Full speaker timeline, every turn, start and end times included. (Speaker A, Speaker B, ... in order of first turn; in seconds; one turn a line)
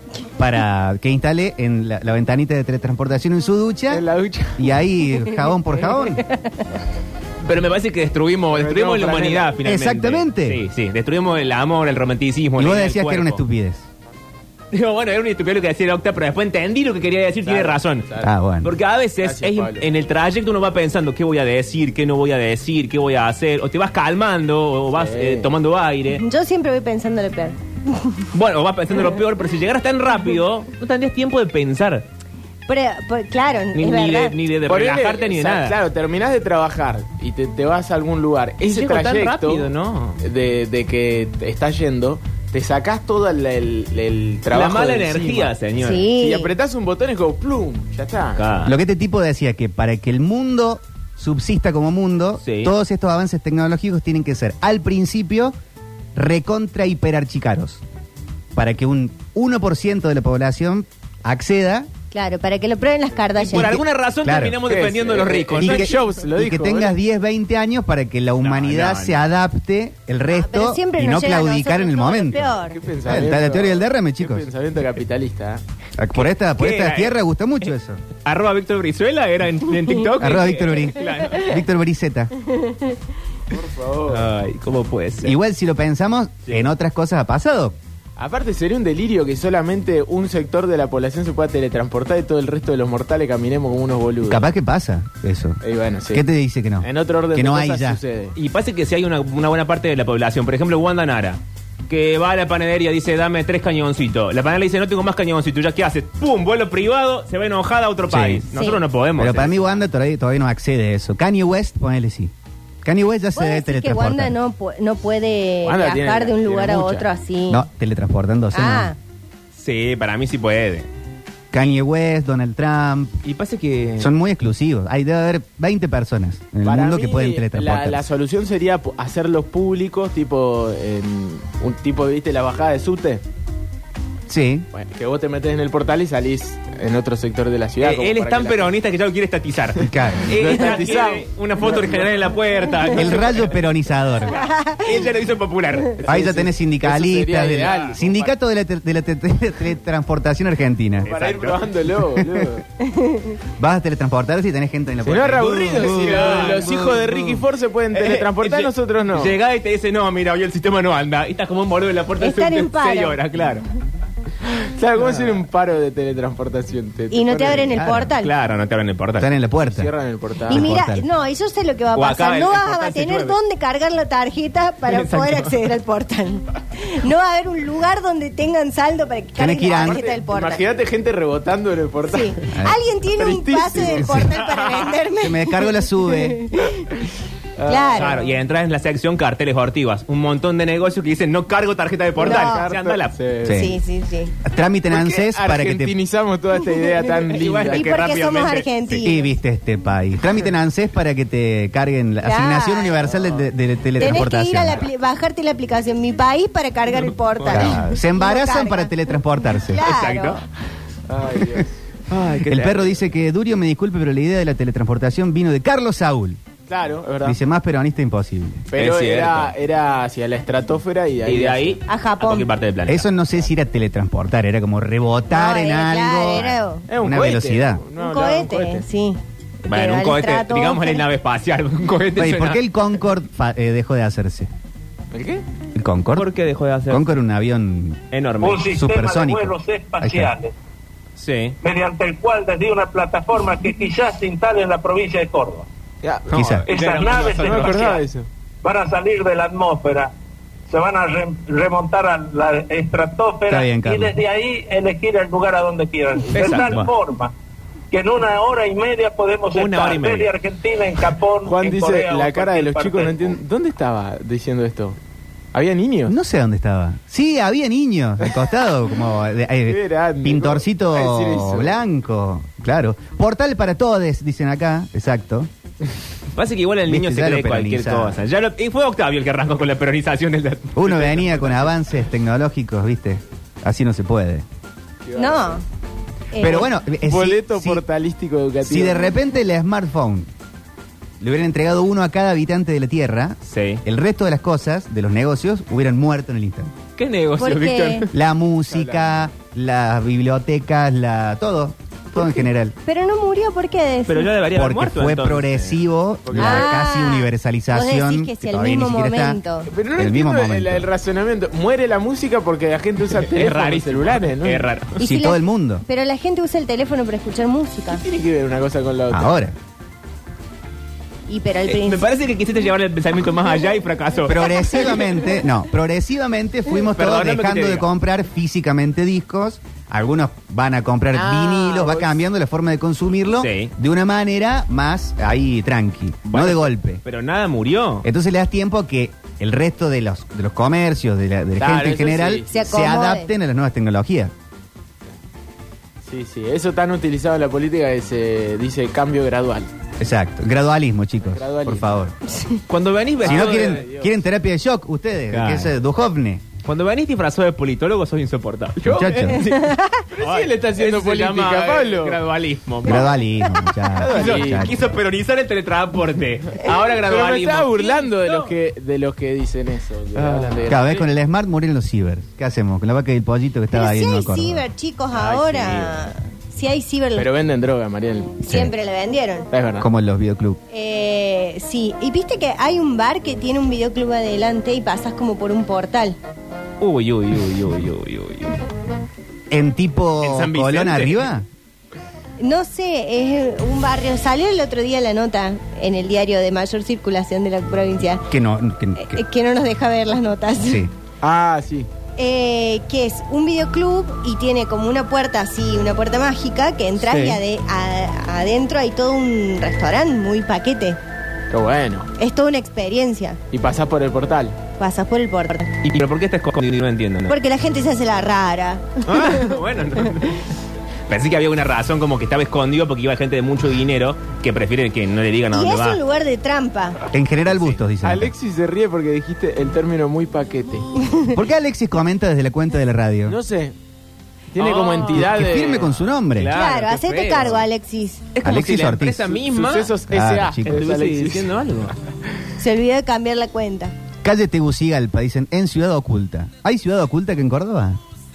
Speaker A: 0.4-4.0
Speaker B: 3.9-4.7
Speaker A: 4.6-6.2
Speaker C: 6.2-6.6
Speaker D: 7.4-13.4
Speaker B: 8.5-9.6
Speaker A: 9.7-10.6
Speaker A: 12.6-13.9
Speaker D: 14.7-18.1
Speaker B: 17.4-18.3
Speaker A: 18.2-18.7
Speaker D: 18.6-26.2
Speaker B: 19.2-19.8
Speaker B: 24.9-25.5
Speaker C: 26.2-28.2
Speaker D: 28.3-32.0
Speaker C: 32.7-34.4
Speaker D: 33.7-35.8
Speaker B: 34.7-39.7
Speaker D: 38.6-40.2
Speaker B: 40.2-45.5
Speaker D: 44.5-46.1
Speaker C: 45.8-46.5
Speaker B: 46.1-48.4
Speaker D: 48.4-48.8
Speaker A: 48.6-55.5
Speaker D: 52.4-52.7
Speaker A: 56.1-57.8
Speaker A: 58.5-61.9
Speaker C: 62.1-63.8
Speaker D: 63.4-66.1
Speaker A: 63.5-64.6
Speaker B: 64.6-66.9
Speaker A: 65.6-74.5
Speaker D: 68.4-69.2
Speaker C: 70.3-72.8
Speaker B: 72.6-75.6
Speaker A: 76.0-78.0
Speaker D: 76.2-77.2
Speaker D: 78.2-81.5
Speaker A: 80.2-82.3
Speaker C: 82.5-83.0
Speaker B: 83.5-84.2
Speaker D: 84.1-85.3
Speaker A: 85.2-87.8
Speaker B: 88.2-94.5
Speaker A: 94.2-98.0
Speaker B: 95.6-96.2
Speaker B: 96.8-98.3
Speaker D: 98.4-109.8
Speaker A: 108.1-108.5
Speaker C: 108.5-108.8
Speaker A: 109.2-114.3
Speaker C: 113.3-117.7
Speaker B: 115.6-117.1
Speaker A: 117.5-118.9
Speaker C: 118.5-119.0
Speaker D: 119.5-120.9
Speaker A: 121.5-123.2
Speaker D: 123.2-124.1
Speaker A: 124.0-128.1
Speaker B: 126.7-133.2
Speaker A: 134.3-134.7
Speaker B: 134.7-138.7
Speaker D: 137.8-143.5
Speaker A: 139.8-140.4
Speaker B: 140.3-142.1
Speaker A: 142.9-144.4
Speaker C: 144.4-144.8
Speaker D: 144.7-146.1
Speaker B: 146.0-148.3
Speaker A: 146.1-151.1
Speaker D: 147.6-148.0
Speaker D: 151.0-151.7
Speaker B: 151.1-152.6
Speaker A: 152.2-152.6
Speaker C: 152.8-153.4
Speaker A: 153.6-156.7
Speaker B: 155.0-159.3
Speaker D: 155.7-163.7
Speaker C: 162.2-163.2
Speaker B: 164.8-167.8
Speaker C: 167.1-168.3
Speaker A: 167.7-168.1
Speaker D: 168.2-169.3
Speaker A: 169.2-169.9
Speaker B: 169.6-170.7
Speaker A: 170.5-171.1
Speaker C: 170.5-180.6
Speaker D: 171.9-173.4
Speaker D: 174.9-175.6
Speaker A: 179.4-180.0
Speaker B: 179.7-182.4
Speaker C: 182.1-187.0
Speaker B: 183.2-184.2
Speaker A: 183.8-184.3
Speaker D: 184.4-184.9
Speaker A: 185.2-186.4
Speaker B: 187.6-188.2
Speaker C: 187.7-188.2
Speaker D: 188.0-193.2
Speaker B: 192.2-193.7
Speaker C: 192.2-192.7
Speaker A: 193.4-193.8
Speaker C: 193.5-194.3
Speaker A: 194.4-195.9
Speaker B: 194.9-197.9
Speaker D: 197.3-199.1
Speaker C: 197.7-199.3
Speaker A: 199.0-204.9
Speaker C: 202.2-203.0
Speaker C: 204.0-208.9
Speaker D: 207.4-207.7
Speaker A: 207.5-209.8
Speaker C: 209.5-210.4
Speaker D: 209.8-210.4
Speaker B: 211.1-211.8
Speaker D: 212.1-212.9
Speaker A: 212.4-216.4
Speaker B: 216.7-217.4
Speaker A: 217.2-218.7
Speaker B: 218.7-221.8
Speaker D: 218.7-219.5
Speaker D: 221.2-223.1
Speaker C: 221.9-222.5
Speaker A: 222.9-227.8
Speaker C: 225.3-226.9
Speaker B: 226.9-228.9
Speaker C: 228.0-231.0
Speaker D: 229.7-232.6
Speaker A: 232.2-234.5
Speaker B: 235.1-235.4
Speaker A: 235.8-236.3
Speaker D: 236.2-237.1
Speaker A: 236.9-238.0
Speaker D: 238.1-238.7
Speaker E: 238.4-240.5
Speaker A: 238.7-240.3
Speaker D: 241.2-241.6
Speaker E: 241.6-245.7
Speaker B: 246.0-248.3
Speaker D: 246.3-248.0
Speaker A: 246.3-246.7
Speaker E: 246.7-248.0
Speaker E: 248.6-250.1
Speaker E: 250.7-257.3
Speaker A: 253.5-254.2
Speaker B: 256.3-256.8
Speaker D: 256.3-256.9
Speaker E: 257.9-263.4
Speaker D: 259.5-260.3
Speaker B: 261.5-265.0
Speaker B: 265.5-266.1
Speaker A: 266.1-275.5
Speaker B: 269.7-271.8
Speaker D: 276.4-281.7
Speaker A: 276.9-278.2
Speaker A: 280.8-284.4
Speaker B: 285.1-285.6
Speaker C: 285.2-285.6
Speaker C: 286.3-286.7
Speaker A: 286.4-287.8
Speaker B: 287.0-289.1
Speaker A: 288.6-290.3
Speaker A: 291.2-296.7
Speaker D: 293.5-293.8
Speaker D: 297.0-298.1
Speaker C: 297.4-298.1
Speaker A: 298.1-302.8
Speaker B: 298.7-299.3
Speaker C: 302.8-304.3
Speaker D: 304.1-305.8
Speaker A: 304.5-309.4
Speaker B: 306.2-306.7
Speaker C: 306.4-309.7
Speaker B: 309.7-314.7
Speaker A: 309.9-310.9
Speaker D: 313.3-315.0
Speaker C: 315.0-318.0
Speaker A: 315.0-315.8
Speaker B: 317.9-319.4
Speaker A: 319.1-319.6
Speaker C: 321.3-322.1
Speaker D: 321.7-324.7
Speaker A: 324.2-337.0
Speaker D: 326.9-327.9
Speaker B: 331.1-332.1
Speaker D: 333.4-333.7
Speaker D: 336.3-338.1
Speaker A: 338.0-344.3
Speaker B: 341.6-342.5
Speaker C: 342.5-343.3
Speaker B: 346.0-349.7
Speaker A: 350.0-352.1
Speaker B: 351.2-351.9
Speaker C: 352.3-352.6
Speaker D: 352.7-353.8
Speaker B: 353.2-354.1
Speaker A: 353.2-356.4
Speaker D: 355.3-355.7
Speaker D: 356.6-363.1
Speaker A: 358.9-359.4
Speaker B: 358.9-359.4
Speaker C: 359.5-360.0
Speaker B: 360.1-362.2
Speaker A: 362.8-364.8
Speaker B: 364.0-364.7
Speaker D: 364.1-368.5
Speaker B: 367.0-371.0
Speaker D: 370.1-371.0
Speaker A: 370.7-374.6
Speaker C: 373.7-377.3
Speaker D: 375.1-376.1
Speaker B: 377.2-378.4
Speaker C: 378.4-379.5
Speaker B: 379.5-379.9
Speaker A: 379.8-380.6
Speaker C: 380.7-386.2
Speaker D: 386.8-388.6
Speaker A: 389.5-391.5
Speaker D: 390.2-391.3
Speaker C: 392.4-398.3
Speaker A: 398.3-399.2
Speaker C: 399.0-400.8
Speaker A: 400.6-400.9
Speaker B: 401.2-401.9
Speaker C: 402.2-411.0
Speaker D: 407.0-407.4
Speaker B: 411.5-412.1
Speaker C: 412.2-413.4
Speaker B: 413.5-414.6
Speaker C: 414.8-415.7
Speaker D: 415.8-417.3
Speaker C: 417.3-419.5
Speaker D: 419.1-420.4
Speaker D: 421.1-426.0
Speaker C: 425.5-427.0
Speaker A: 427.1-428.3
Speaker D: 427.5-427.8
Speaker B: 428.0-430.9
Speaker A: 431.3-433.4
Speaker B: 433.3-433.8
Speaker B: 434.5-435.9
Speaker D: 434.6-437.6
Speaker A: 435.1-436.5
Speaker C: 436.5-438.2
Speaker D: 438.4-440.0
Speaker A: 438.4-439.4
Speaker B: 439.4-441.5
Speaker A: 440.1-440.9
Speaker D: 440.6-441.9
Speaker C: 442.6-443.9
Speaker A: 444.2-448.0